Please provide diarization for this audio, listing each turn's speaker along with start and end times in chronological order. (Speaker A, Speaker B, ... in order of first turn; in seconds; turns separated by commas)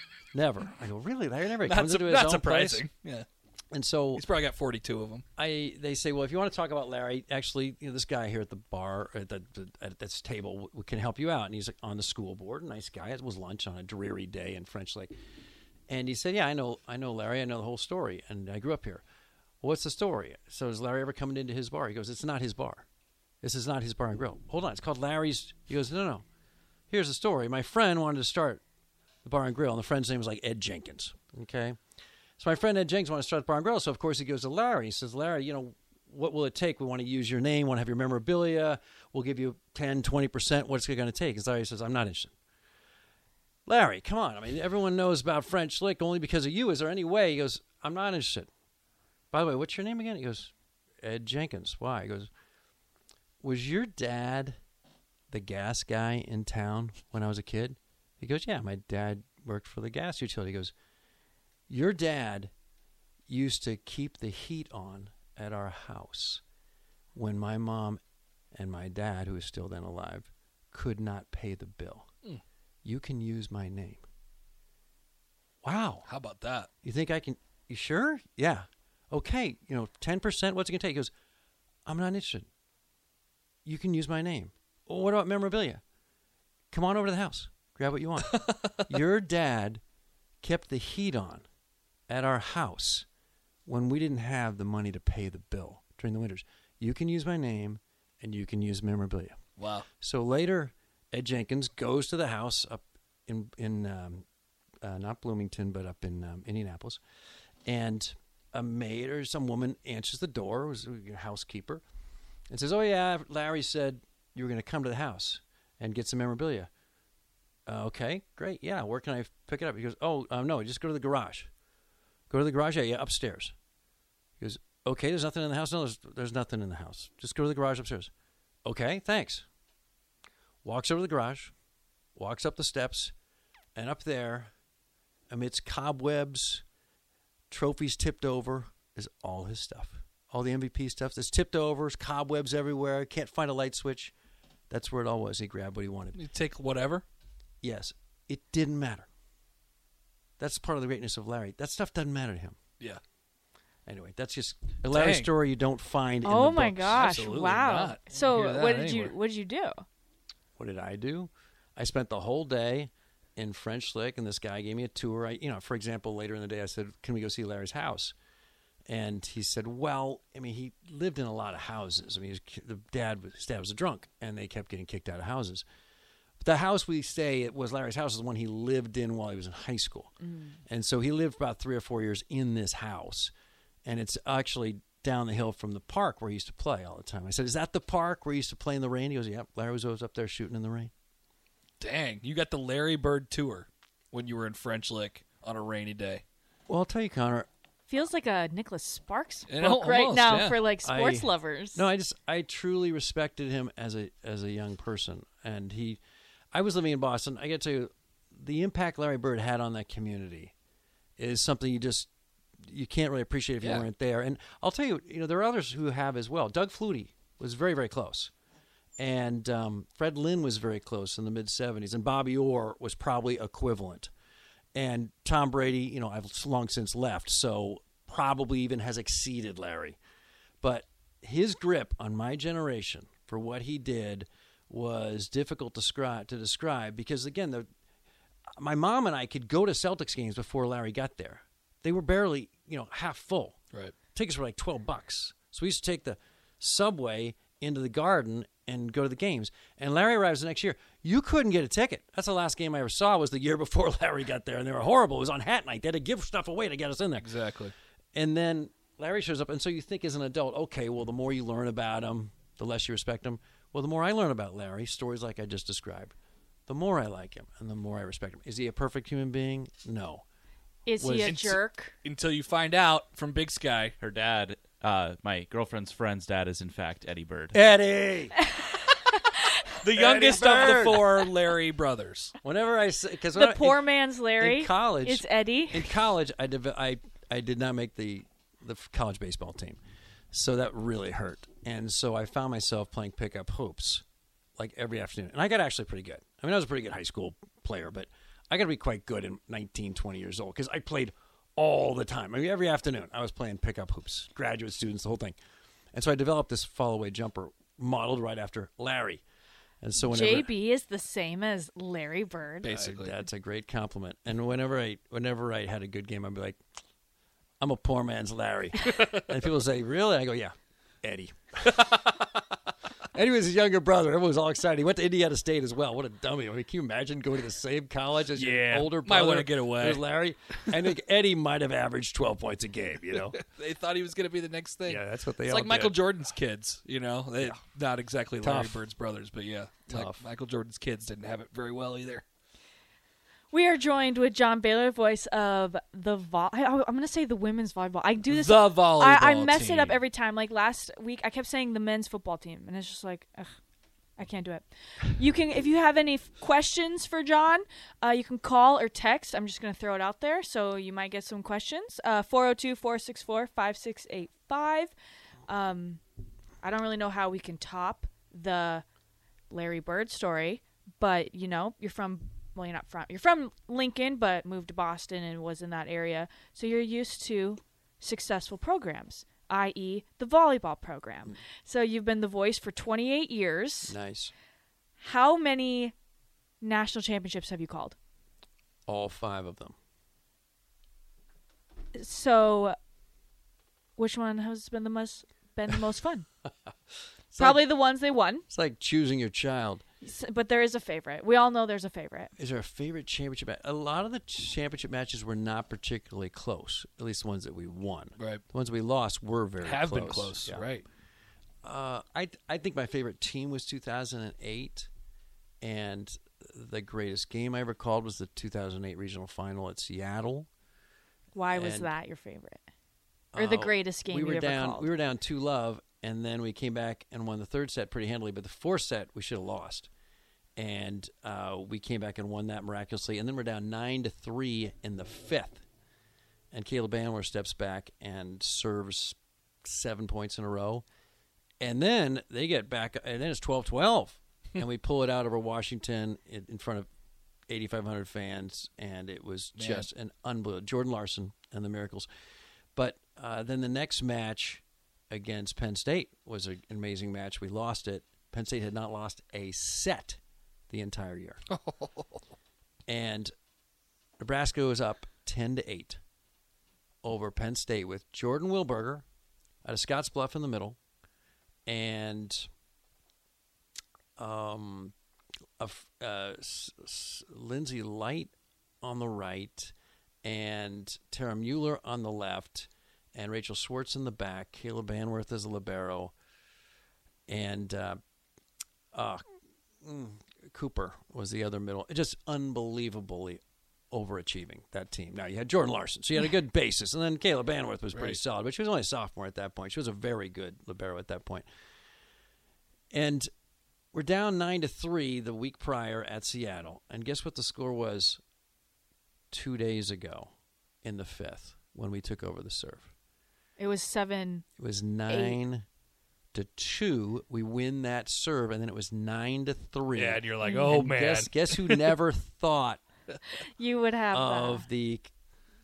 Speaker A: 0.3-2.8, Speaker B: 1.6-3.2, Speaker A: 3.7-4.2, Speaker B: 4.1-5.2, Speaker A: 5.4-15.1, Speaker A: 15.9-19.0, Speaker A: 19.6-22.8, Speaker A: 23.4-26.2, Speaker A: 26.9-28.6, Speaker A: 29.2-31.8, Speaker A: 32.4-42.3, Speaker A: 43.6-48.5, Speaker A: 49.3-52.3, Speaker A: 53.4-54.6, Speaker A: 55.3-60.7, Speaker A: 61.7-62.5, Speaker A: 63.3-66.4, Speaker A: 67.1-68.0, Speaker A: 68.5-72.1, Speaker A: 72.8-74.0, Speaker A: 75.6-76.0, Speaker B: 76.0-76.7, Speaker A: 76.8-81.1, Speaker A: 81.8-82.5, Speaker A: 83.6-85.8, Speaker A: 86.7-89.8, Speaker B: 88.3-88.9, Speaker A: 90.4-91.4, Speaker A: 92.1-93.0, Speaker A: 93.7-99.4, Speaker B: 99.6-99.9, Speaker A: 100.0-104.2, Speaker A: 104.8-107.0, Speaker A: 107.7-111.8, Speaker A: 112.5-116.7, Speaker A: 117.7-121.5, Speaker A: 122.3-123.5, Speaker A: 124.4-128.1, Speaker A: 128.6-129.4, Speaker A: 130.6-131.5, Speaker A: 132.2-133.1, Speaker A: 133.7-134.5, Speaker A: 135.3-136.6, Speaker A: 137.5-144.1, Speaker A: 144.7-146.2, Speaker B: 146.1-147.0, Speaker A: 147.6-149.1, Speaker A: 150.4-152.6, Speaker A: 153.8-157.2, Speaker B: 154.9-155.3, Speaker C: 156.2-159.8, Speaker B: 156.8-159.1, Speaker A: 160.6-168.1, Speaker A: 168.9-175.6, Speaker A: 176.4-180.1, Speaker C: 180.2-180.6, Speaker A: 180.7-183.3, Speaker A: 183.8-190.9, Speaker B: 191.8-196.2, Speaker A: 196.7-197.5, Speaker C: 197.9-201.8, Speaker B: 199.5-200.6, Speaker A: 200.8-206.0, Speaker A: 206.5-210.5, Speaker A: 211.2-212.1, Speaker A: 212.6-218.3, Speaker B: 213.6-213.8, Speaker A: 219.0-224.1, Speaker A: 224.7-230.0, Speaker A: 230.6-237.7, Speaker A: 238.6-243.6, Speaker A: 244.1-257.3, Speaker B: 257.2-257.7, Speaker A: 258.1-266.1, Speaker A: 266.7-270.2, Speaker C: 270.9-271.9, Speaker A: 271.0-271.4, Speaker B: 271.2-273.9, Speaker D: 274.0-277.6, Speaker A: 277.5-278.4, Speaker B: 279.8-282.3, Speaker A: 279.9-281.2, Speaker A: 282.4-289.8, Speaker C: 283.3-285.9, Speaker A: 290.3-294.0, Speaker A: 294.6-305.4, Speaker A: 305.9-309.2, Speaker A: 309.8-310.5, Speaker C: 309.9-312.7, Speaker B: 312.6-313.1, Speaker A: 312.7-316.6, Speaker A: 317.6-322.1, Speaker A: 323.1-333.4, Speaker B: 328.3-330.0, Speaker B: 333.3-342.2, Speaker A: 334.9-335.9, Speaker A: 338.4-338.8, Speaker A: 339.9-340.2, Speaker C: 343.5-353.5, Speaker B: 348.3-350.0, Speaker C: 354.2-364.9, Speaker C: 365.5-366.0, Speaker C: 366.6-368.8, Speaker C: 369.5-383.9, Speaker A: 383.9-384.3, Speaker C: 385.0-385.9, Speaker C: 386.6-387.9, Speaker A: 388.9-389.7, Speaker C: 391.9-392.8, Speaker C: 394.0-396.3, Speaker A: 397.3-397.6, Speaker C: 397.4-398.4, Speaker A: 398.5-399.8, Speaker C: 400.0-402.3, Speaker A: 402.4-410.6, Speaker B: 409.6-410.8, Speaker A: 411.6-414.9, Speaker A: 415.6-420.5, Speaker C: 421.3-422.6, Speaker A: 421.5-421.9, Speaker A: 423.3-429.9, Speaker C: 423.4-424.9, Speaker A: 430.6-435.6, Speaker A: 436.5-440.8, Speaker A: 441.6-446.9, Speaker A: 447.5-452.1, Speaker B: 449.6-449.9, Speaker A: 452.8-460.2, Speaker A: 460.7-461.4, Speaker B: 461.5-462.2, Speaker A: 462.9-463.3, Speaker A: 464.2-466.0, Speaker A: 467.0-469.0, Speaker A: 469.6-470.8, Speaker A: 471.6-472.5, Speaker A: 474.2-474.9, Speaker A: 475.6-486.1, Speaker A: 487.3-488.0, Speaker A: 488.9-489.2, Speaker A: 489.8-501.4, Speaker B: 497.9-498.2, Speaker A: 502.9-503.3, Speaker A: 503.9-508.2, Speaker A: 509.3-510.3, Speaker A: 510.8-512.9, Speaker C: 513.6-514.4, Speaker A: 514.6-515.6, Speaker C: 515.1-515.4, Speaker A: 516.3-522.8, Speaker B: 519.9-521.9, Speaker C: 520.4-520.7, Speaker C: 523.6-524.6, Speaker A: 524.1-525.1